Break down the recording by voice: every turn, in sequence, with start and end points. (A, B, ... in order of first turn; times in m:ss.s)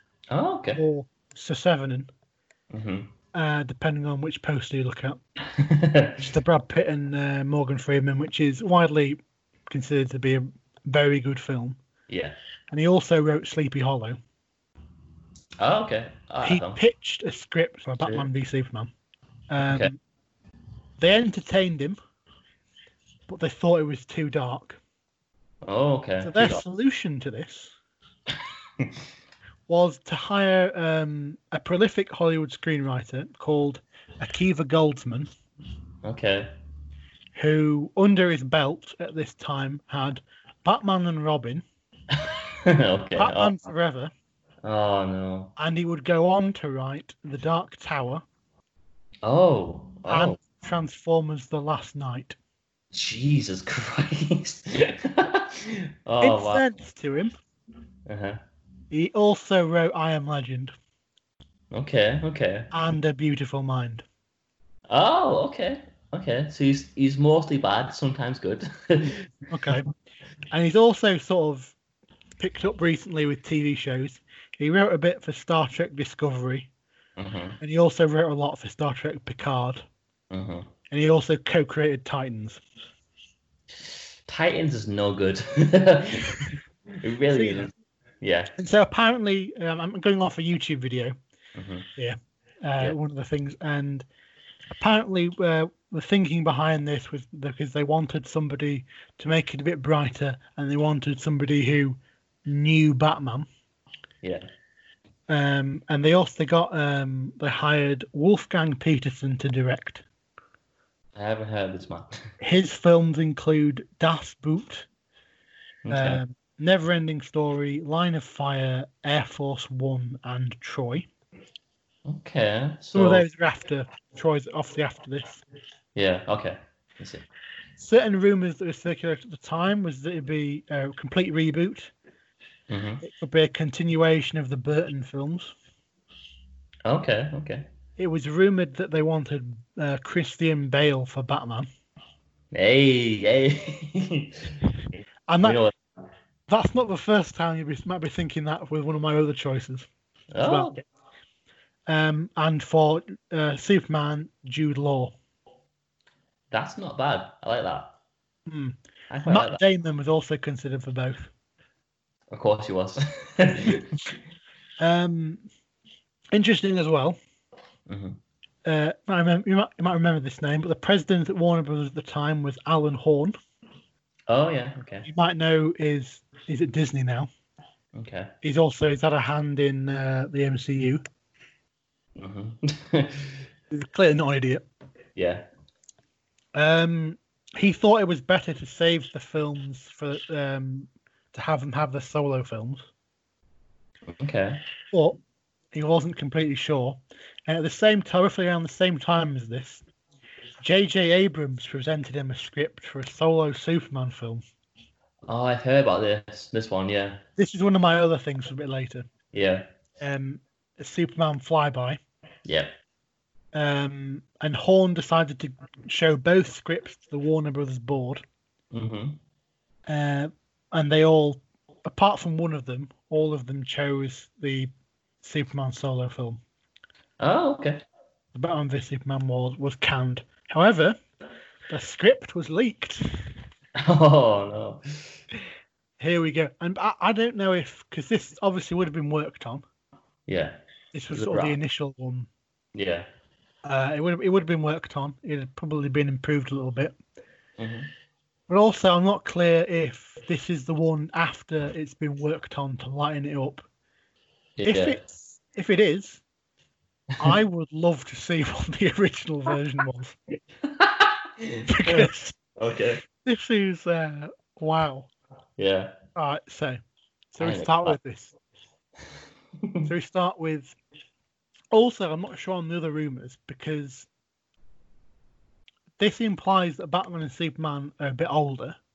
0:00.3-0:00.8 A
0:00.8-0:02.1 B
0:02.7-0:03.1 A
0:03.3-0:05.2 B
0:05.5-0:06.2 A
0:06.2-0:11.8 B
0:12.1-0:12.4 A
0:12.7-0:14.2 B
0:15.6-0:16.8 A
0:16.4-0:18.9 B
0:19.5-0:20.0 B
0:19.6-0:19.9 A
0:21.0-0:22.0 B
0:23.3-0:24.8 B
0:25.6-0:26.6 A
0:26.2-0:27.8 B
0:29.7-0:35.3 B
0:36.0-0:36.5 A
0:37.4-0:41.6 B
0:42.1-0:43.6 A
0:43.2-0:44.1 B
0:44.6-0:45.5 A
0:45.6-0:48.2 B
0:49.2-0:50.4 A
0:50.1-0:52.4 B
0:52.9-0:56.7 A
0:56.2-0:57.3 B
0:58.1-0:58.4 A
0:58.9-1:00.7 B
1:01.7-1:02.7 A
1:02.7-1:04.0 B
1:04.9-1:09.8 A
1:09.5-1:09.9 B
1:10.5-1:11.8 B
1:12.4-1:16.7 B
1:17.2-1:17.6 A
1:17.6-1:19.8 B
1:20.3-1:20.7 A
1:20.9-1:22.6 B
1:24.3-1:28.5 A
1:27.3-1:27.7 B
1:28.6-1:31.2 B
1:31.6-1:31.9 A
1:32.0-1:34.1 B
1:34.8-1:43.5 B
1:45.3-1:50.0 B
1:51.2-1:52.2 A
1:52.4-1:54.9 B
1:55.8-1:56.2 A
1:55.9-2:01.1 B
2:02.1-2:03.3 A
2:02.9-2:05.4 B
2:06.0-2:07.2 A
2:07.8-2:11.9 B
2:12.7-2:13.0 A
2:13.0-2:15.5 B
2:16.9-2:17.7 A
2:18.0-2:21.7 B
2:22.5-2:25.8 A
2:25.3-2:25.6 B
2:26.5-2:29.9 B
2:30.3-2:30.8 A
2:30.4-2:30.7 B
2:31.9-2:35.2 B
2:36.5-2:38.0 A
2:38.5-2:41.3 B
2:39.1-2:39.6 A
2:42.3-2:44.0 A
2:44.8-2:45.4 B
2:46.3-2:47.2 B
2:47.9-2:48.2 A
2:48.6-2:53.4 B
2:54.3-2:55.1 A
2:55.0-2:57.3 B
2:57.9-2:58.3 A
2:58.4-3:01.0 B
3:02.2-3:03.5 A
3:03.7-3:04.6 B
3:05.2-3:05.5 A
3:06.6-3:12.9 B
3:14.1-3:14.6 A
3:14.9-3:15.2 B
3:15.7-3:19.8 B
3:20.6-3:24.4 B
3:25.3-3:27.2 A
3:27.4-3:29.1 B
3:29.3-3:29.7 A
3:30.0-3:32.0 B
3:32.4-3:32.8 A
3:33.5-3:38.2 B
3:38.7-3:39.2 A
3:39.9-3:44.7 B
3:45.2-3:46.4 B
3:47.2-3:47.8 A
3:48.4-3:51.0 B
3:51.7-3:53.3 B
3:53.8-3:55.2 A
3:56.0-3:59.6 B
4:00.3-4:00.6 A
4:00.9-4:02.3 B
4:01.1-4:01.6 A
4:02.7-4:03.1 A
4:03.6-4:07.0 B
4:07.6-4:07.9 A
4:08.5-4:13.6 B
4:14.6-4:15.0 A
4:14.6-4:16.2 B
4:17.2-4:20.2 B
4:20.6-4:23.0 A
4:21.7-4:22.4 B
4:23.2-4:25.1 B
4:25.6-4:26.0 A
4:26.2-4:26.8 B
4:27.3-4:28.4 B
4:27.4-4:28.0 A
4:29.9-4:30.8 B
4:31.7-4:34.1 B
4:36.0-4:38.8 B